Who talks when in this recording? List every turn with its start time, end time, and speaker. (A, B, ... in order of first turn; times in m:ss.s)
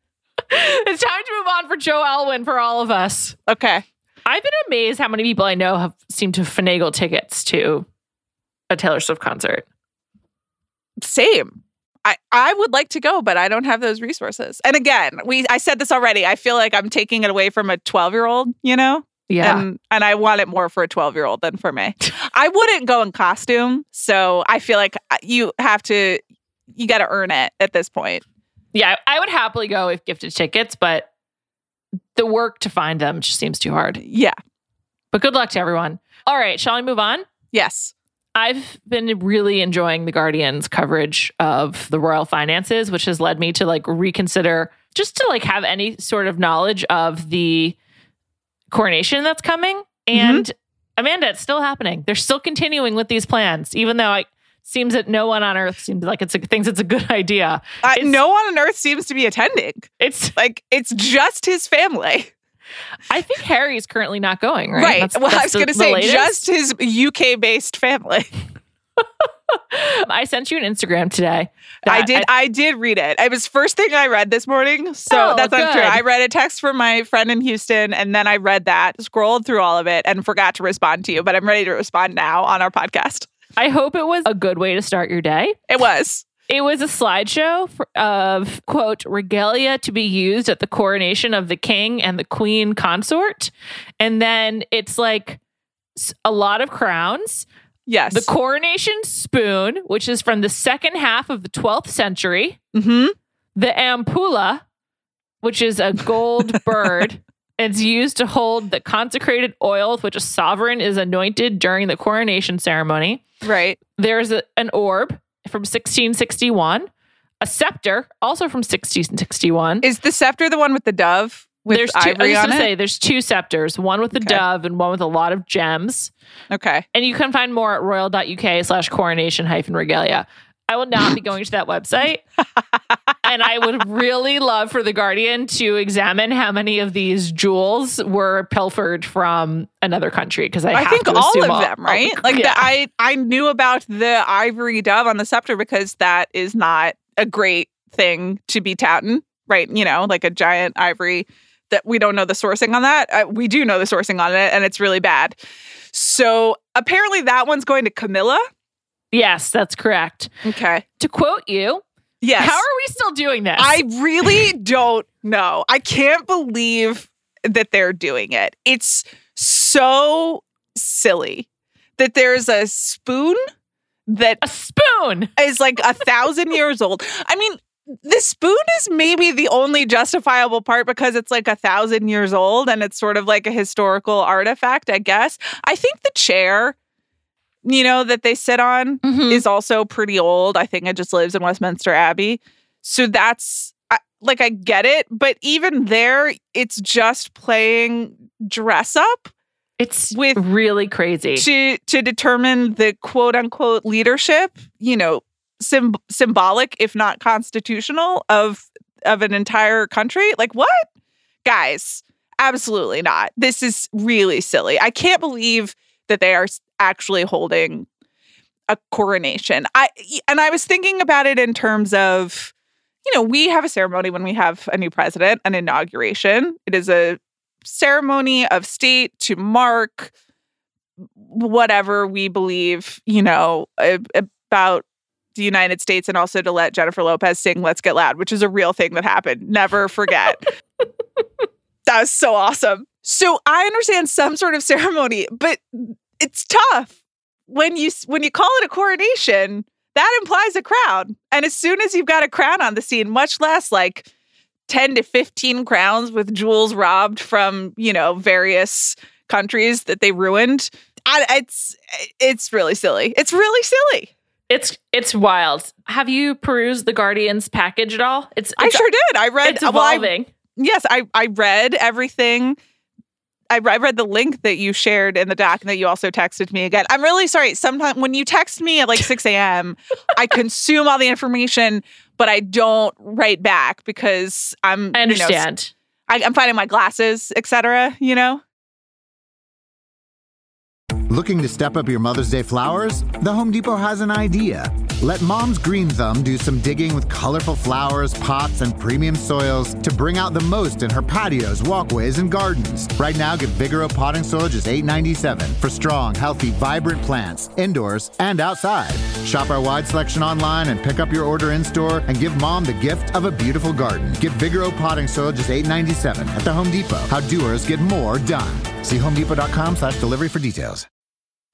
0:00.5-0:03.4 A
0:03.5-0:03.8 B
0:04.2-0:07.9 A
0:08.7-0:09.6 A
0:11.0-0:26.2 B
0:19.3-0:19.6 A
0:26.7-0:28.2 B
0:28.7-0:31.1 A
0:32.1-0:34.0 A
0:34.0-0:34.4 B
0:35.1-0:37.2 A
0:37.5-0:37.9 B
0:38.4-0:47.8 A
0:48.7-0:58.2 A
0:50.1-0:50.4 B
0:57.8-1:02.3 B
1:00.0-1:00.4 A
1:03.1-1:06.4 A
1:04.8-1:08.3 B
1:09.2-1:12.3 A
1:11.9-1:23.3 B
1:15.1-1:16.0 A
1:23.6-1:25.6 A
1:25.7-1:26.2 B
1:26.5-1:35.4 A
1:36.0-1:37.4 A
1:37.9-1:38.3 B
1:38.1-1:42.6 A
1:42.7-1:43.1 B
1:43.6-1:44.6 A
1:45.4-1:53.2 A
1:53.4-1:53.8 B
1:54.0-1:56.9 A
1:57.4-1:59.8 A
1:59.8-2:02.7 B
2:01.7-2:06.1 A
2:06.5-2:06.8 B
2:06.9-2:12.2 A
2:13.2-2:22.7 A
2:20.7-2:35.4 B
2:35.9-2:38.4 B
2:39.1-2:40.3 A
2:40.4-2:40.8 B
2:41.0-2:41.8 A
2:42.2-2:42.6 B
2:42.4-2:43.8 A
2:43.6-2:51.5 B
2:52.0-2:53.4 B
2:54.1-2:54.4 B
2:54.4-2:55.3 A
2:55.4-3:06.7 B
3:07.6-3:19.3 B
3:09.0-3:09.4 A
3:19.8-3:21.4 A
3:20.1-3:20.4 B
3:21.4-3:30.9 B
3:31.4-3:37.9 B
3:38.7-3:42.5 B
3:43.0-3:50.1 B
3:51.2-4:00.5 B
4:01.9-4:06.9 B
4:07.5-4:14.0 B
4:14.7-4:24.1 B
4:24.5-4:28.8 A
4:28.6-4:32.6 B
4:29.4-4:30.3 A
4:33.5-4:45.4 B
4:44.9-4:45.7 A
4:46.1-4:48.4 B
4:51.1-5:20.8 C